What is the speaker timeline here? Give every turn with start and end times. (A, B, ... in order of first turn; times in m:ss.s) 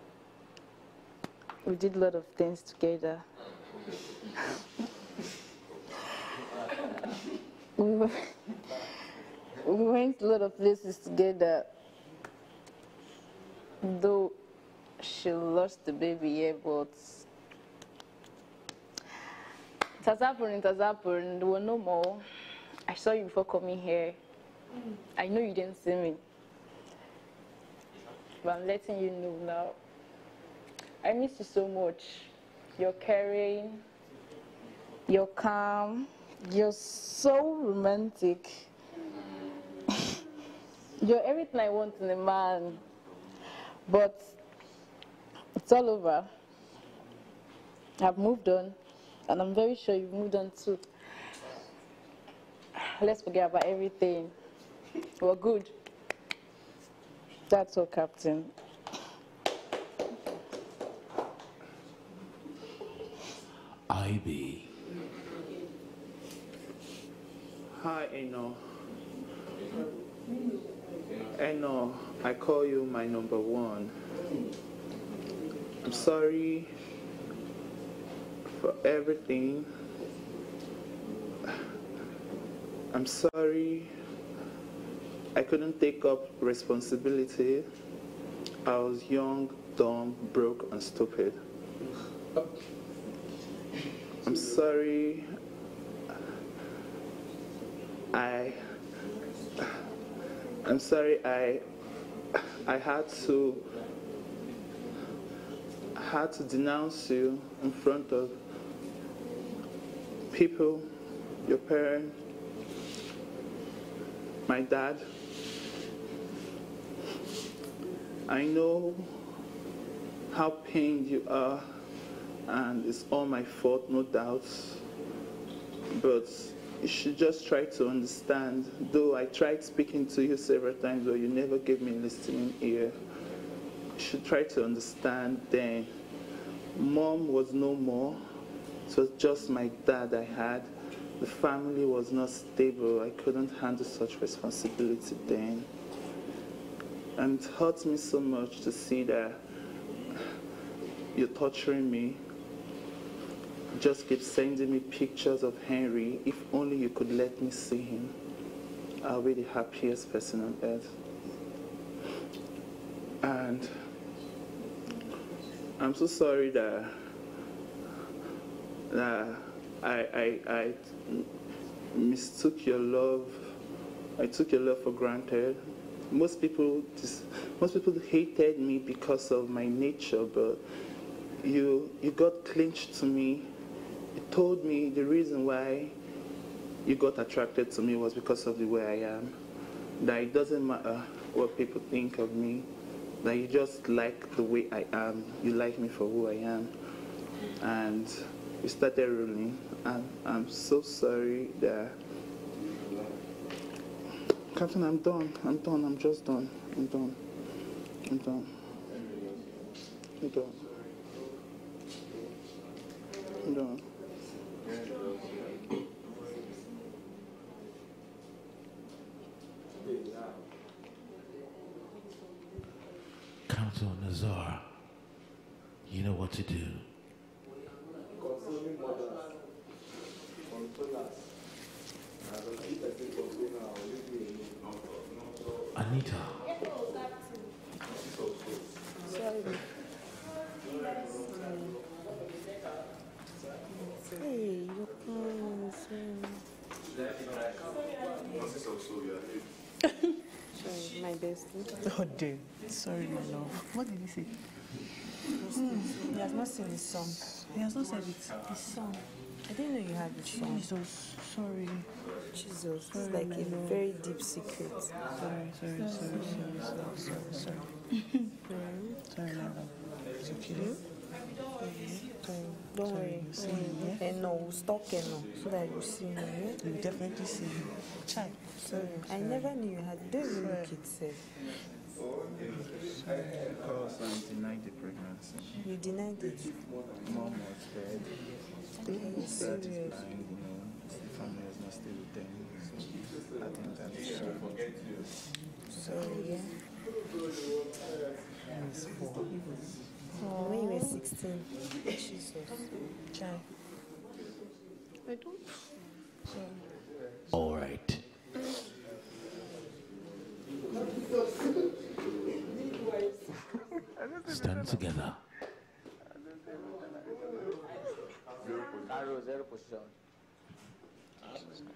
0:01.6-0:03.2 A
0:07.8-0:08.3 A
0:09.6-0:11.7 A
0:13.8-0:14.3 A
0:15.0-0:17.2 A
0:20.0-0:22.2 A
0:22.9-0:24.2 A
0:25.1-0:26.2 A
0:28.4-0:29.8 A
0:31.0-0:33.8 A
0:35.1-0:38.7 A
0:41.0-0:42.8 A
0:43.6-0:44.3 A
0:45.6-0:46.3 A
0:48.0-0:50.8 A
0:52.8-0:54.3 A
0:55.2-0:55.7 A
0:57.5-0:58.5 A
1:03.9-1:04.7 B
1:07.7-1:08.6 C
1:11.3-1:13.9 C
1:15.8-1:16.7 C
1:18.5-1:19.7 C
1:22.9-1:23.9 C
1:25.3-1:27.7 C
1:28.6-1:31.4 C
1:34.2-1:35.3 C
1:38.1-1:38.6 C
1:40.6-1:41.6 C
1:42.4-1:43.7 C
1:45.9-1:48.4 C
1:50.3-1:50.8 C
1:51.4-1:52.1 C
1:54.5-1:55.0 C
1:58.3-1:59.3 C
2:00.3-2:01.8 C
2:02.4-2:04.8 C
2:05.9-2:13.0 C
2:14.0-2:15.9 C
2:16.7-2:18.2 C
2:18.9-2:25.7 C
2:27.2-2:29.4 C
2:31.1-2:32.2 C
2:33.7-2:38.2 C
2:39.0-2:40.9 C
2:43.2-2:43.7 C
2:45.8-2:47.1 C
2:48.9-2:51.3 C
2:51.9-2:53.6 C
2:54.2-3:00.6 C
3:01.4-3:03.5 C
3:04.1-3:05.9 C
3:06.8-3:09.4 C
3:10.0-3:12.7 C
3:13.2-3:16.7 C
3:17.6-3:22.0 C
3:24.5-3:27.2 C
3:28.0-3:28.6 C
3:30.2-3:30.6 C
3:33.4-3:33.9 C
3:39.8-3:40.4 D
3:43.5-3:44.7 B
3:45.8-3:46.8 B
3:48.1-3:49.4 D
3:50.4-3:51.2 D
3:52.2-3:54.6 D
3:55.7-3:56.6 B
3:59.0-3:59.6 E
4:04.0-4:06.4 E
4:10.5-4:11.9 E
4:11.9-4:14.3 F
4:15.5-4:17.4 E
4:17.5-4:18.6 F
4:18.9-4:20.7 E
4:20.3-4:21.9 F
4:22.2-4:25.0 E
4:22.9-4:23.8 F
4:25.1-4:27.8 F
4:25.9-4:27.1 E
4:28.4-4:29.0 E
4:29.1-4:30.8 F
4:30.5-4:30.8 E
4:31.6-4:34.0 F
4:32.1-4:36.7 E
4:36.6-4:39.4 F
4:38.6-4:41.2 E
4:40.3-4:40.7 F
4:42.7-4:43.4 F
4:43.5-4:45.5 C
4:45.6-4:46.5 E
4:47.0-4:48.2 C
4:48.8-4:50.0 E
4:48.9-4:54.5 C
4:55.7-4:56.6 E
4:58.5-5:00.2 F
5:00.1-5:03.5 E
5:07.3-5:08.0 B
5:14.2-5:15.2 B
5:18.8-5:19.9 D